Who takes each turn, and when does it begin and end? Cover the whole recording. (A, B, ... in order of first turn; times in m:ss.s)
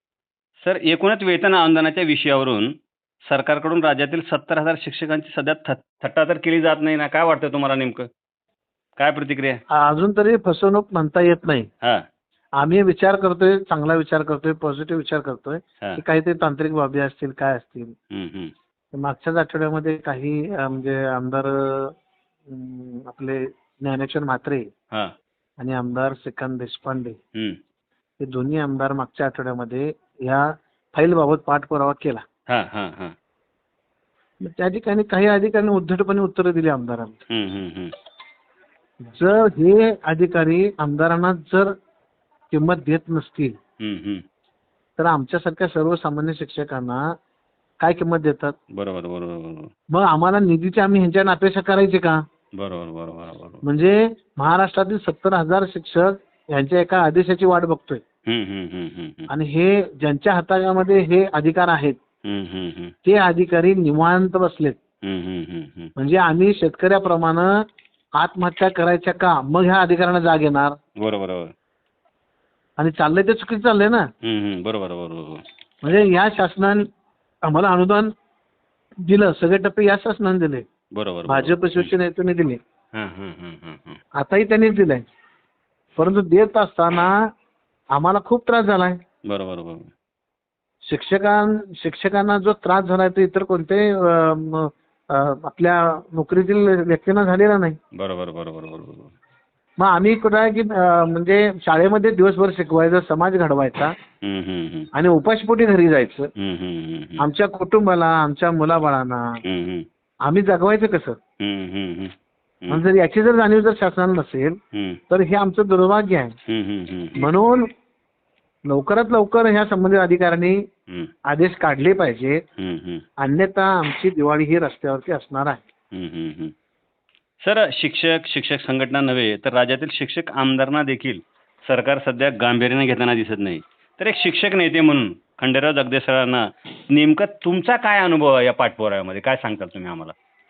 0:00.6-0:02.7 A
0:03.3-0:08.1 A
0:09.0-0:09.6 A
0:09.7-0:11.7 B
0:12.6-0:17.9 B
0:18.1-0:18.5 A
0:18.9-0:21.9 B
0:22.5-0:24.7 B
0:25.6-0:27.2 B
0:28.2-0:32.2 B
0:32.5-0:33.2 A
0:34.4-0:37.2 B
0:37.3-0:37.9 A
0:39.1-0:41.7 B
0:42.5-0:43.6 B
0:43.8-0:44.2 A
0:45.0-0:47.0 B
0:47.8-0:48.6 B
0:48.7-0:49.7 A
0:49.9-0:52.2 B
0:52.6-0:53.6 A
0:53.6-0:58.0 B
0:58.3-0:59.3 A
0:59.3-1:02.0 B
1:02.2-1:02.9 A
1:03.0-1:04.8 B
1:05.0-1:05.9 A
1:06.0-1:07.6 B
1:08.2-1:10.8 B
1:11.0-1:11.5 A
1:12.8-1:14.1 B
1:14.2-1:15.4 A
1:15.8-1:16.8 B
1:17.4-1:18.1 B
1:19.0-1:20.6 B
1:20.9-1:21.9 A
1:21.3-1:22.6 B
1:22.9-1:24.0 A
1:24.2-1:25.0 B
1:26.0-1:27.2 B
1:27.9-1:29.0 B
1:29.3-1:29.9 A
1:30.9-1:37.8 B
1:38.0-1:39.1 A
1:39.8-1:44.0 B
1:44.2-1:44.9 A
1:44.9-1:46.3 B
1:46.4-1:47.2 A
1:47.2-1:49.4 B
1:49.4-1:49.8 A
1:50.2-1:51.2 B
1:51.4-1:52.1 A
1:52.7-1:54.6 B
1:54.7-1:55.0 A
1:55.1-1:56.4 B
1:56.5-1:57.3 A
1:57.2-1:57.7 B
1:58.7-2:00.6 B
2:01.3-2:02.4 B
2:02.6-2:03.0 A
2:03.2-2:05.6 B
2:05.9-2:06.5 A
2:07.4-2:20.1 A